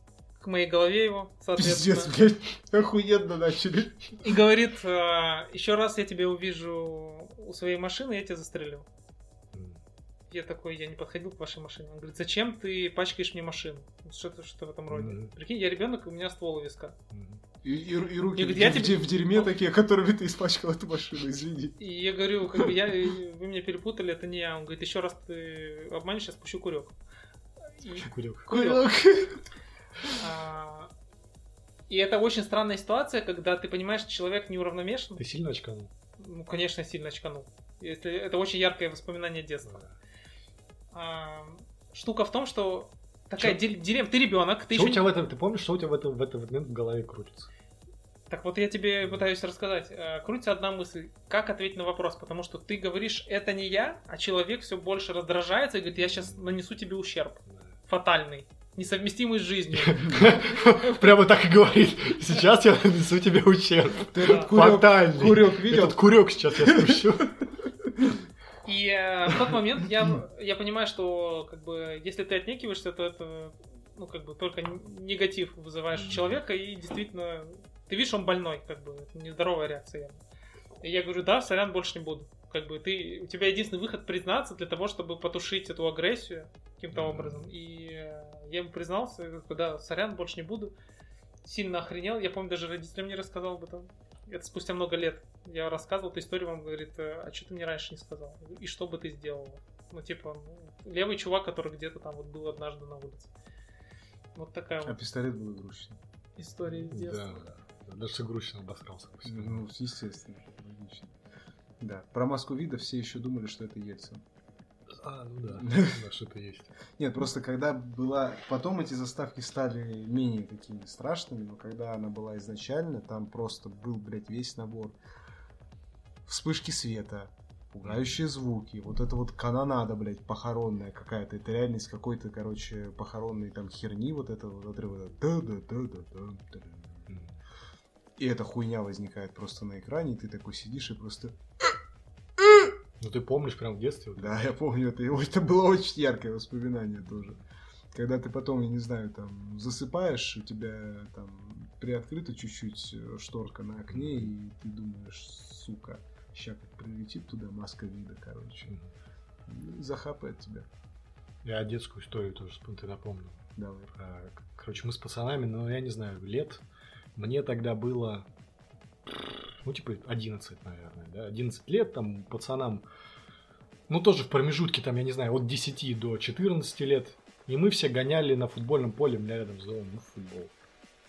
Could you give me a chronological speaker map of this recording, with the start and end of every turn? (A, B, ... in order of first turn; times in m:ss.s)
0:00.4-0:02.1 A
0:01.6-0:04.2 B
0:04.2-0:08.9 A
0:09.5-0:09.8 C
0:10.3-0:17.0 A
0:14.9-0:15.3 C
0:17.1-0:17.4 C
0:17.6-0:21.8 B
0:18.4-0:19.5 A
0:21.8-0:27.0 A
0:27.8-0:28.8 A
0:28.0-0:28.5 C
0:28.5-0:29.4 B
0:30.2-0:30.9 A
0:31.9-0:35.2 A
0:35.2-0:35.9 C
0:36.2-0:39.8 A
0:39.7-0:39.9 C
0:40.9-0:45.1 A
0:44.7-0:47.5 C
0:48.3-1:01.0 A
0:56.0-0:56.6 C
0:57.5-0:57.8 C
0:59.7-1:07.4 C
1:00.0-1:00.3 B
1:04.1-1:07.0 B
1:08.6-1:20.2 A
1:16.0-1:16.4 C
1:20.8-1:30.7 A
1:26.9-1:27.5 C
1:31.4-1:43.3 A
1:44.4-1:45.0 A
1:44.8-1:46.0 B
1:46.4-1:47.5 A
1:46.7-1:49.7 C
1:49.2-1:51.1 B
1:51.8-1:54.2 B
1:54.9-1:56.7 C
1:55.5-1:56.0 B
1:57.0-2:05.0 B
2:06.3-2:17.1 B
2:07.8-2:08.2 C
2:17.1-2:17.4 C
2:18.2-2:21.4 B
2:22.4-2:22.7 B
2:23.0-2:24.5 C
2:24.2-2:27.4 B
2:27.9-2:38.8 B
2:33.9-2:34.3 C
2:38.7-2:38.9 C
2:39.5-2:40.7 B
2:41.4-2:46.6 C
2:43.6-2:43.9 B
2:47.2-2:48.3 C
2:49.1-2:52.8 C
2:53.9-3:00.5 C